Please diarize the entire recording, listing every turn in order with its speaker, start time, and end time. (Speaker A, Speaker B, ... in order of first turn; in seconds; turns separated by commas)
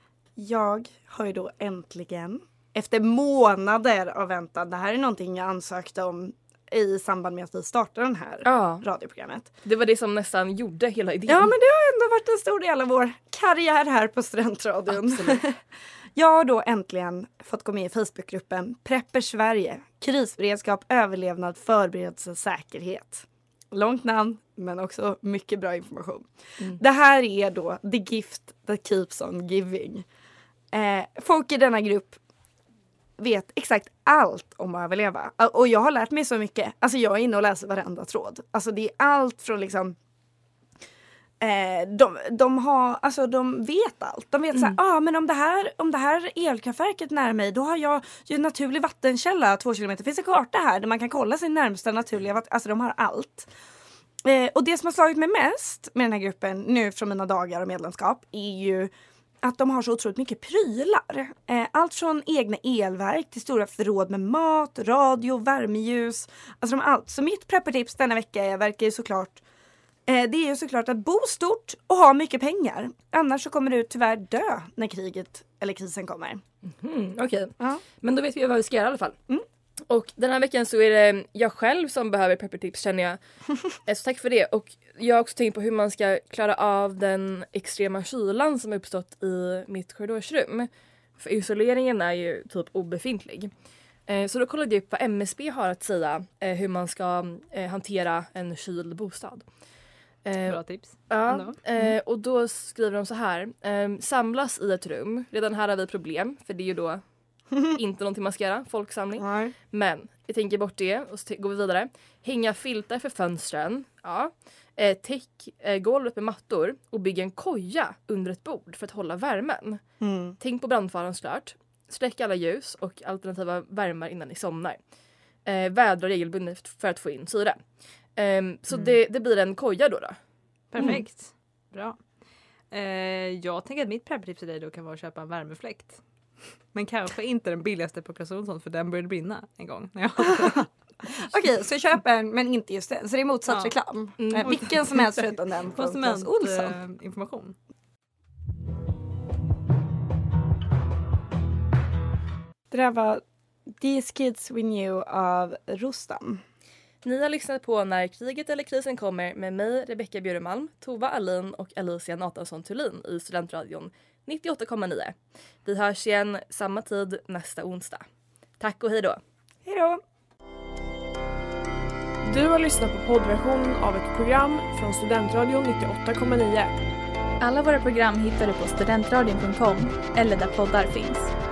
Speaker A: 0.4-9.5, Speaker B: 8.4-8.8, Speaker B: 9.6-11.5, Speaker A: 11.3-15.6, Speaker B: 14.9-15.4, Speaker A: 16.1-30.1, Speaker A: 30.7-32.2, Speaker A: 33.2-40.0, Speaker A: 41.4-53.5, Speaker A: 54.2-58.9, Speaker A: 59.4-69.4, Speaker A: 70.1-76.4, Speaker B: 76.7-79.2, Speaker B: 79.9-83.2, Speaker B: 83.9-93.5, Speaker B: 94.1-99.4, Speaker B: 100.2-107.0, Speaker C: 100.5-101.6, Speaker B: 107.7-119.8, Speaker A: 109.2-109.5, Speaker A: 120.0-120.4, Speaker B: 120.4-124.8, Speaker B: 125.4-127.6, Speaker B: 128.2-130.2, Speaker C: 130.7-132.0, Speaker C: 132.7-136.0, Speaker C: 136.7-140.7, Speaker A: 141.1-146.7, Speaker C: 143.5-143.7, Speaker B: 144.2-144.6, Speaker C: 144.3-147.6, Speaker A: 152.7-156.4, Speaker B: 157.0-168.1, Speaker B: 168.6-169.2, Speaker A: 169.6-170.0, Speaker D: 172.2-176.8, Speaker E: 177.4-181.3